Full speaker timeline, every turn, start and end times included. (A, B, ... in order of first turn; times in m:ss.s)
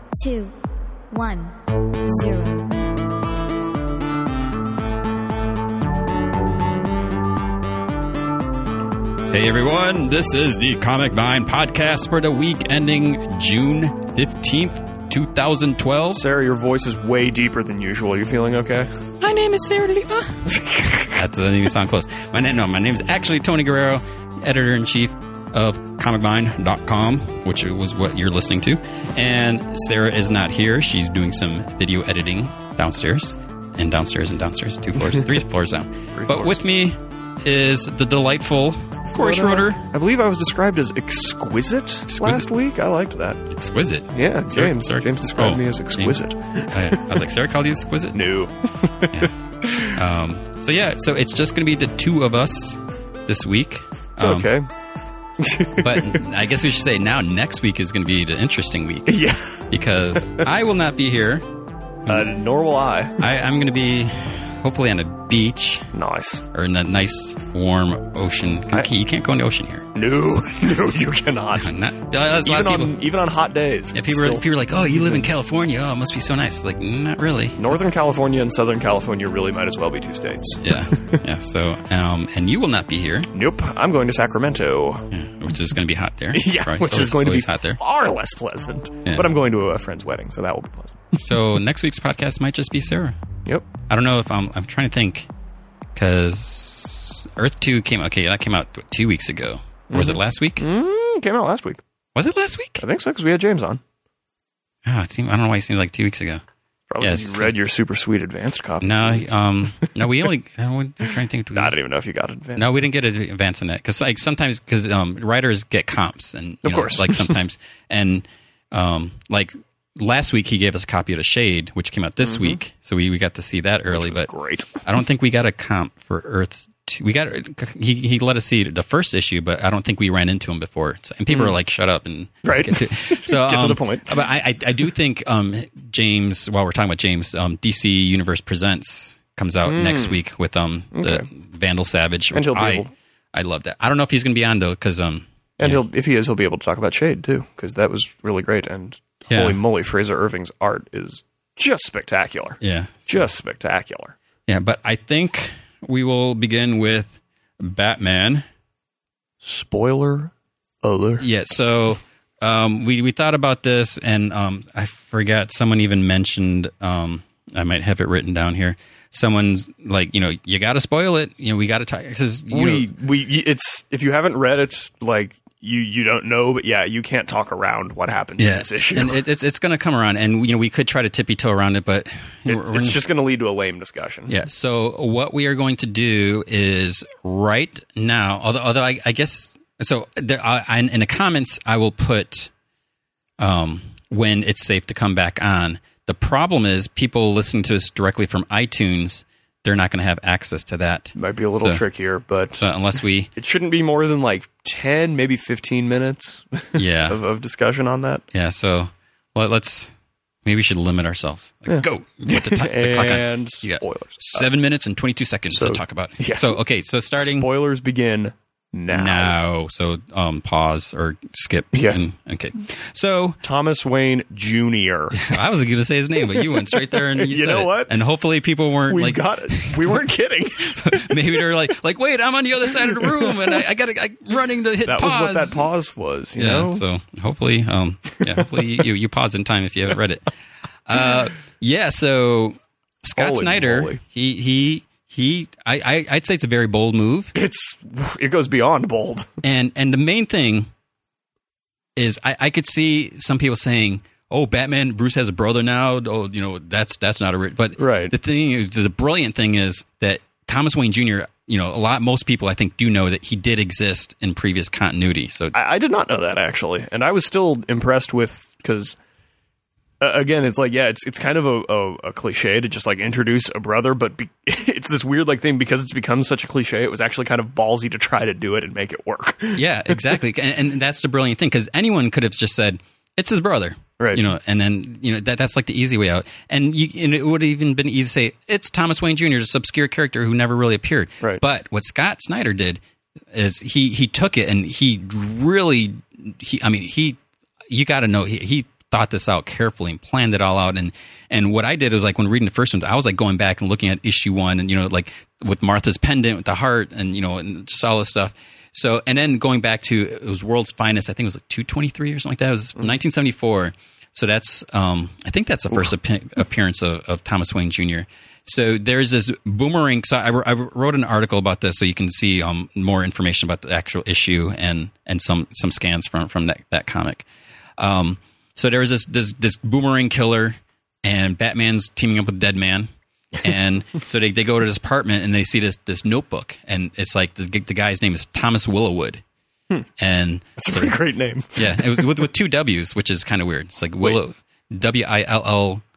0:00.2-0:00.5 A
0:01.1-0:02.8 A
0:09.3-0:16.2 B
0:16.1-0:19.0 C
0:19.2-0:20.5 B
0:20.5-0:21.2 C
0:21.1-0:39.8 B
0:35.0-0:35.4 C
0:36.1-0:36.6 C
0:39.1-0:43.5 C
0:42.1-0:42.5 B
0:43.5-0:48.2 B
0:44.1-0:47.2 C
0:48.1-0:50.0 C
0:49.8-0:54.5 B
0:54.2-0:54.7 C
0:55.4-0:56.2 C
0:55.8-1:01.5 B
0:59.0-0:59.7 C
1:02.1-1:03.2 C
1:03.2-1:05.9 B
1:05.9-1:06.4 C
1:06.5-1:09.9 B
1:09.9-1:11.7 C
1:11.6-1:13.0 B
1:12.4-1:15.2 C
1:13.9-1:17.7 B
1:17.6-1:21.2 C
1:20.6-1:23.3 B
1:23.3-1:25.1 C
1:25.1-1:27.8 B
1:26.3-1:31.2 C
1:29.0-1:29.3 B
1:31.2-1:33.2 B
1:33.9-1:35.3 B
1:35.9-1:40.7 B
1:39.9-1:41.8 C
1:42.1-1:42.8 B
1:42.8-1:43.8 C
1:44.8-1:46.4 B
1:46.9-1:49.3 C
1:47.0-1:47.5 B
1:48.8-1:51.7 B
1:51.5-1:52.7 C
1:52.6-2:04.3 B
1:56.6-1:57.4 C
2:02.2-2:02.6 C
2:03.9-2:04.8 C
2:04.8-2:25.8 B
2:11.3-2:11.5 C
2:12.4-2:14.2 C
2:19.6-2:20.2 C
2:20.9-2:21.2 C
2:22.3-2:22.9 C
2:25.6-2:34.2 C
2:29.3-2:29.6 B
2:32.6-2:33.3 B
2:34.5-2:38.4 B
2:39.4-2:41.2 C
2:41.2-2:52.9 B
2:52.5-2:59.2 C
2:58.4-3:03.0 B
3:02.5-3:04.3 C
3:04.3-3:12.5 B
3:13.4-3:21.8 B
3:21.2-3:22.7 C
3:22.5-3:23.3 B
3:23.4-3:28.2 C
3:26.8-3:27.2 B
3:28.3-3:29.9 B
3:30.4-3:37.5 B
3:31.7-3:34.5 C
3:35.5-3:36.6 C
3:37.2-3:39.3 C
3:38.9-3:43.4 B
3:41.7-3:42.0 C
3:43.4-3:45.4 C
3:45.1-3:50.0 B
3:46.2-3:47.9 C
3:48.9-3:51.2 C
3:50.6-3:55.6 B
3:52.7-3:53.6 C
3:54.8-3:56.8 C
3:56.4-4:00.3 B
4:00.8-4:07.3 B
4:03.1-4:04.0 C
4:07.3-4:09.3 C
4:09.4-4:10.7 B
4:12.0-4:25.6 B
4:17.8-4:18.1 C
4:25.5-4:29.0 C
4:30.0-4:40.1 C
4:39.6-4:52.8 B
4:44.0-4:44.2 C
4:53.3-5:27.3 B
5:27.8-5:32.9 B
5:33.4-5:39.2 B
5:40.0-5:41.0 B
5:40.6-5:42.2 C
5:41.6-5:45.8 B